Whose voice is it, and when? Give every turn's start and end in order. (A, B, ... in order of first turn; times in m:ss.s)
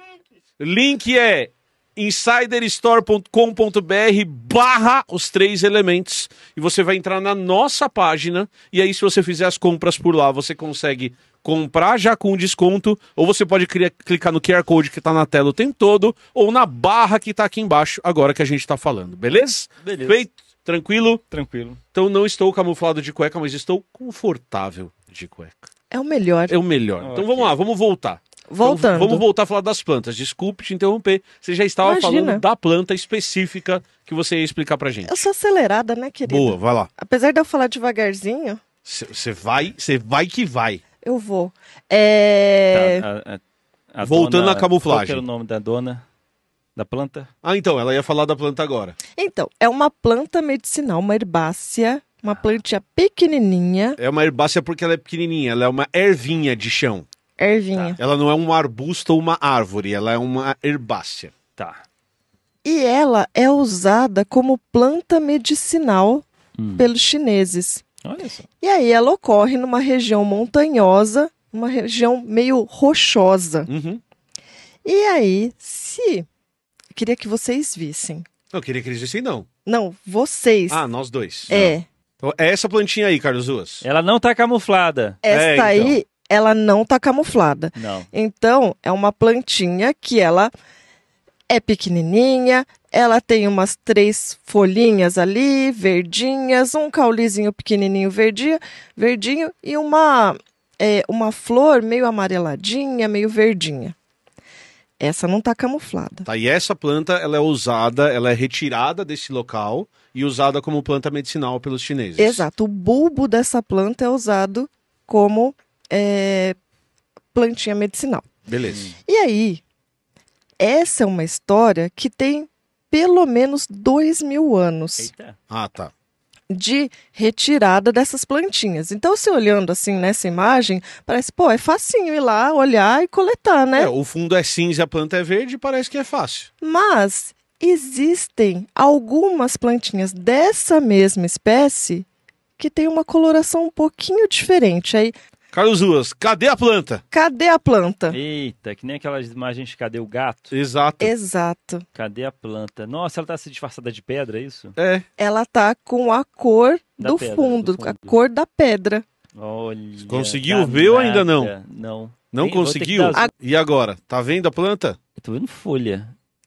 0:00.6-0:21.2 A
0:19.8-0:20.2 B
0:21.3-0:21.8 B
0:21.9-0:25.7 A
0:25.9-0:26.6 C
0:26.5-0:35.1 A
0:27.0-0:27.6 B
0:28.5-0:29.2 C
0:31.8-0:32.4 C
0:35.0-0:38.6 C
0:36.3-0:36.9 A
0:38.8-0:40.8 A
0:41.0-0:43.0 C
0:42.7-0:43.4 B
0:43.9-0:46.0 B
0:44.0-0:45.2 A
0:46.8-0:47.3 B
0:47.4-0:49.0 A
0:49.2-0:54.0 C
0:54.0-0:57.0 A
0:57.4-0:58.0 C
0:58.0-1:01.3 A
1:01.6-1:01.8 B
1:02.6-1:06.2 C
1:06.6-1:06.8 B
1:06.8-1:07.8 C
1:08.0-1:08.5 B
1:08.6-1:13.7 C
1:13.7-1:14.0 A
1:14.8-1:16.2 C
1:16.9-1:18.3 C
1:18.5-1:19.5 A
1:19.6-1:20.8 C
1:20.7-1:21.7 A
1:21.5-1:21.8 C
1:22.2-1:23.8 A
1:23.8-1:25.2 B
1:25.2-1:30.5 C
1:25.3-1:26.0 A
1:27.8-1:28.1 B
1:31.5-1:43.9 C
1:45.0-1:46.3 C
1:46.2-1:52.4 A
1:52.2-1:56.6 C
1:57.3-1:58.3 C
1:58.5-1:58.8 A
1:59.1-1:59.6 C
2:00.6-2:05.1 C
2:05.0-2:05.4 B
2:05.5-2:05.9 A
2:06.5-2:13.9 C
2:13.8-2:16.5 A
2:16.6-2:22.0 C
2:22.6-2:25.2 C
2:25.5-2:27.0 A
2:27.1-2:28.2 C
2:28.1-2:30.5 B
2:30.5-2:31.1 A
2:31.0-2:31.8 C
2:31.9-2:34.8 B
2:34.8-2:35.0 A
2:35.2-2:39.0 C
2:37.0-2:38.2 B
2:39.4-2:43.3 B
2:40.0-2:41.5 A
2:42.3-2:45.0 A
2:45.2-2:46.1 B